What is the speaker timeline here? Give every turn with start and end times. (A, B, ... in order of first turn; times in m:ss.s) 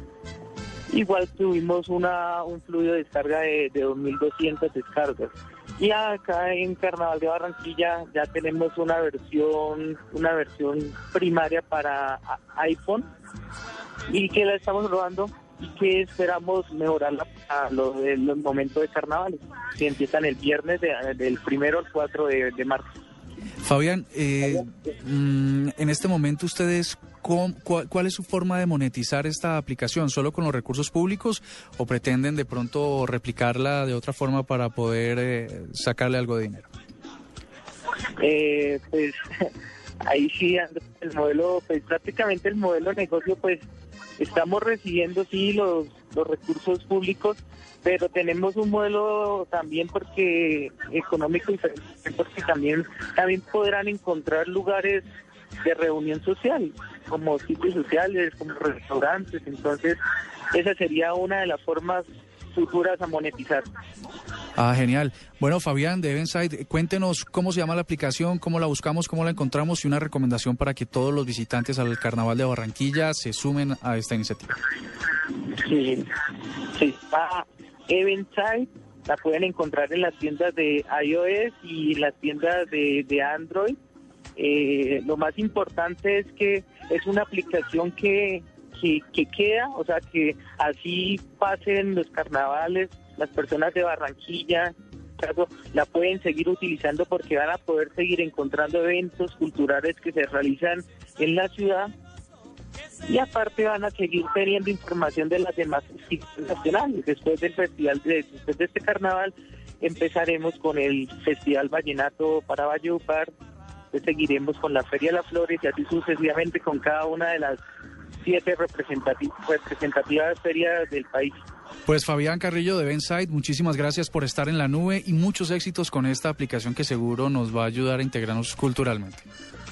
0:00.9-0:13.1 A
0:14.1-0:22.9 A
0:23.6-0:36.7 B
0:38.2-0:39.5 A
0:40.0-0:43.6 A
0:44.2-0:55.0 A
0:55.6-1:00.0 A
1:00.5-1:03.7 A
1:04.6-1:14.5 B
1:15.6-1:16.1 A
1:16.7-1:23.8 A
1:24.4-1:41.9 A
1:43.0-1:53.3 A
1:53.9-1:57.6 A
1:58.2-2:01.4 A
2:01.9-2:09.2 B